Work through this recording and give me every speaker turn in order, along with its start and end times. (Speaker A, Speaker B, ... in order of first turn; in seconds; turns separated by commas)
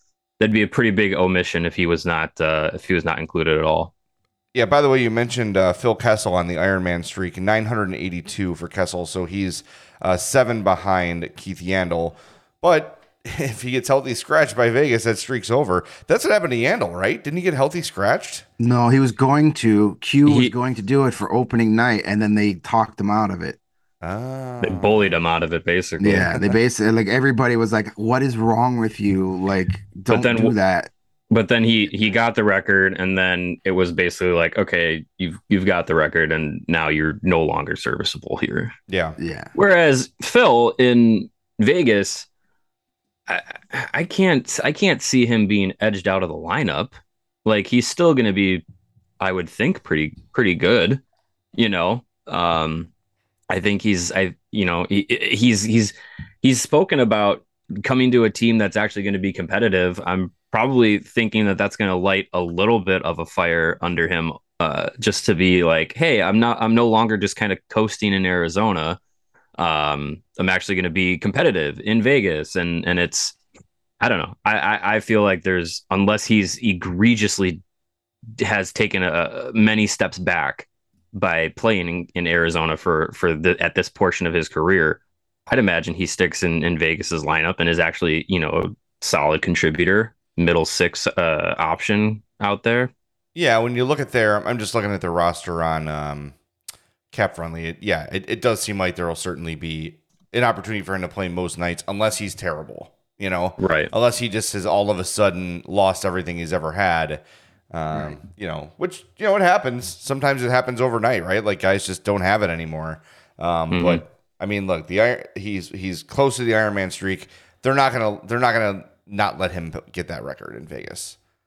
Speaker A: 0.4-3.9, Speaker B: 4.5-18.4, Speaker C: 18.6-23.6, Speaker A: 20.2-20.5, Speaker B: 24.0-25.1, Speaker A: 24.6-26.5, Speaker C: 26.0-30.9, Speaker A: 30.1-30.5, Speaker A: 31.3-38.7, Speaker B: 38.9-39.1, Speaker C: 39.2-39.5, Speaker A: 39.5-42.3, Speaker A: 43.3-48.6, Speaker A: 49.2-51.0, Speaker A: 51.5-52.9, Speaker A: 53.5-69.0, Speaker A: 69.6-73.4, Speaker A: 74.0-77.6, Speaker A: 78.4-92.9, Speaker B: 93.3-96.3, Speaker B: 97.1-121.2, Speaker A: 103.6-103.9, Speaker A: 113.7-114.0